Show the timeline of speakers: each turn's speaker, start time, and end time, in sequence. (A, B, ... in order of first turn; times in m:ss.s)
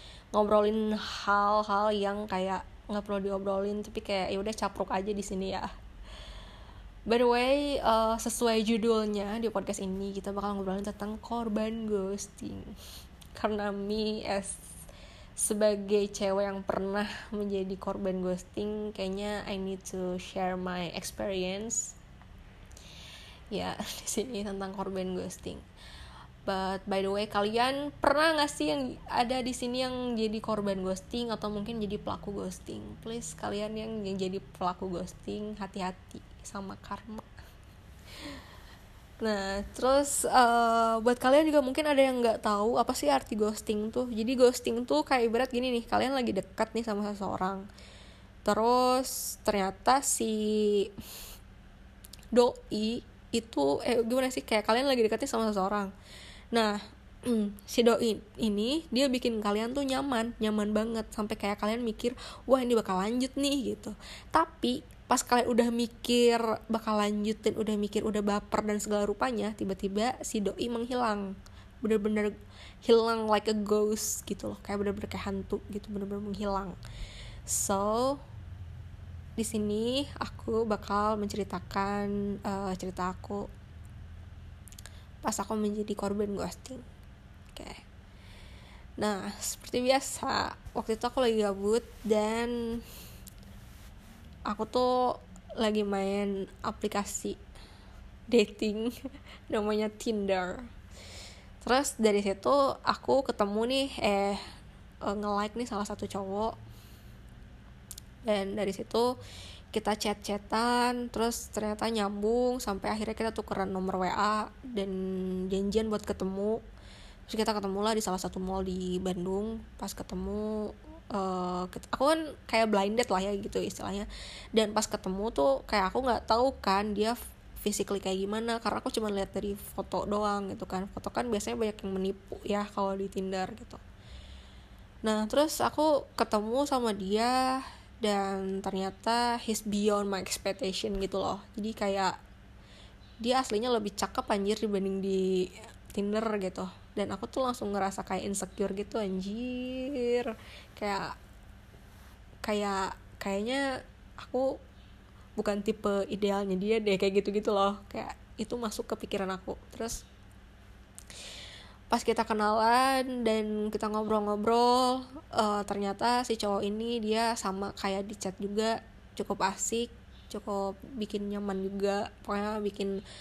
0:00.3-0:05.7 A
0:07.1-0:12.7 A
0:13.4-0:14.7 A
0:15.4-0:22.0 A
0:23.5-0:25.6 A
0:26.5-0:37.3 A
0:39.2-0:47.6 A
0:48.4-0:50.9 A
0:52.3-0:55.9 A
0:56.5-1:16.8 A
1:17.5-1:18.2 A
1:19.4-1:23.5 A
1:25.2-1:26.8 A
1:27.5-1:27.8 A
1:29.0-1:32.5 A
1:34.5-1:37.4 A
1:38.3-1:38.9 A
1:39.5-1:40.7 A
1:41.6-1:44.4 A
1:45.0-1:46.5 A
1:48.3-1:49.1 A
1:49.7-1:56.6 A
1:57.3-2:13.8 A
2:15.0-2:22.1 A
2:23.2-2:31.2 A
2:32.4-2:33.6 A
2:34.2-2:34.6 A
2:35.4-2:40.0 A
2:41.9-2:53.0 A